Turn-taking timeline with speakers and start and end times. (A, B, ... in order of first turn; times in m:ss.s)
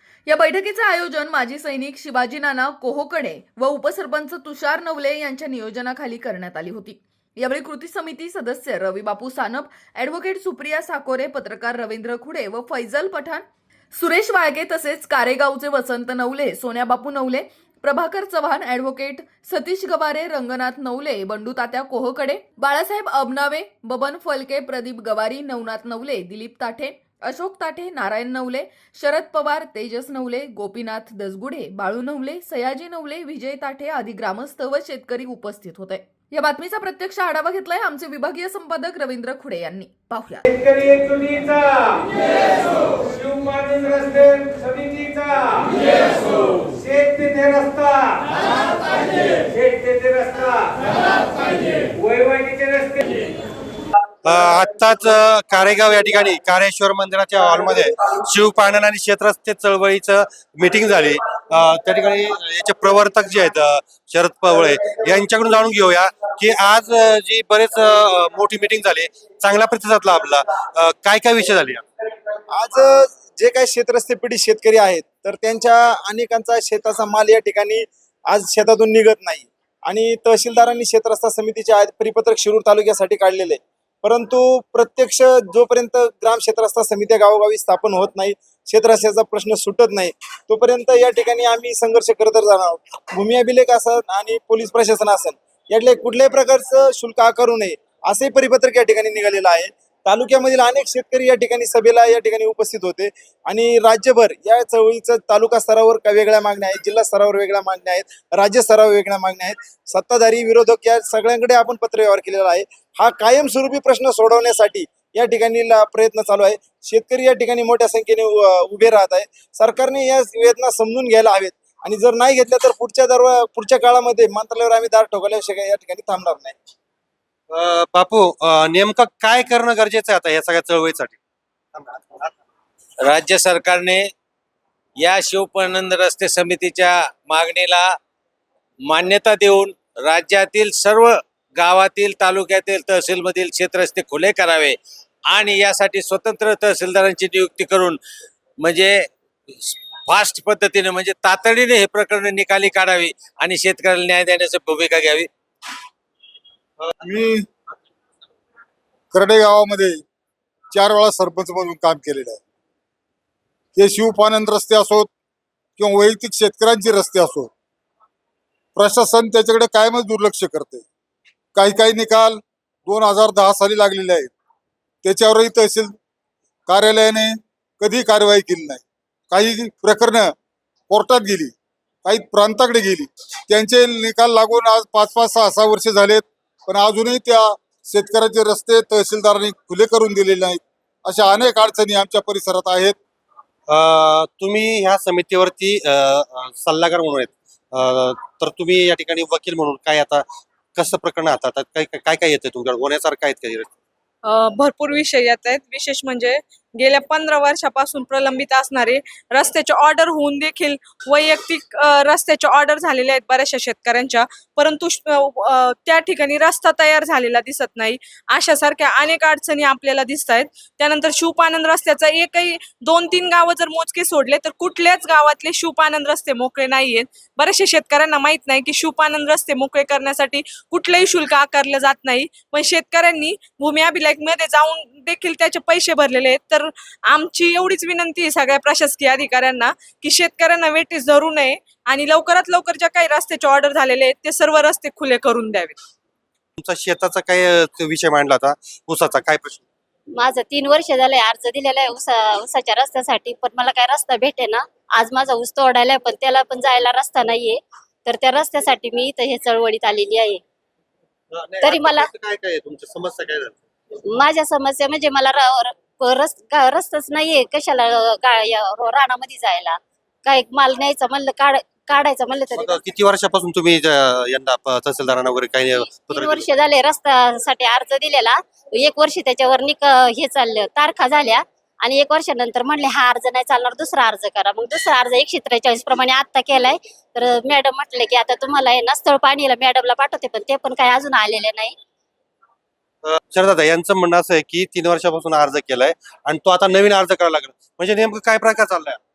0:00.3-0:40.4 A
0:40.7-0:42.0 B
0:42.9-0:45.8 B
0:46.8-0:48.2 B
0:49.6-0:50.7 B
0:52.4-0:52.9 B
0:54.2-1:11.8 C
1:12.5-2:06.6 D
2:07.5-2:11.2 C
2:11.8-2:12.3 C
2:13.1-2:14.1 B
2:15.0-2:18.0 B
2:18.9-2:24.8 B
2:25.3-2:28.0 B
2:28.6-2:29.1 B
2:29.6-2:35.3 B
2:37.0-2:37.5 E
2:39.1-2:40.0 E
2:40.7-2:42.4 E
2:43.8-2:45.1 E
2:45.8-2:47.5 E
2:48.8-2:50.9 E
2:51.6-2:54.3 E
2:55.0-2:56.0 E
2:56.7-3:00.3 E
3:00.9-3:01.5 E
3:02.0-3:13.0 E
3:13.7-3:23.8 C
3:24.2-4:05.8 F
4:06.6-4:09.6 C
4:10.1-4:20.4 G
4:21.3-4:23.6 C
4:21.6-4:22.1 G
4:24.1-4:32.8 G
4:32.5-4:36.5 C
4:35.9-4:51.8 G
4:53.0-4:59.0 C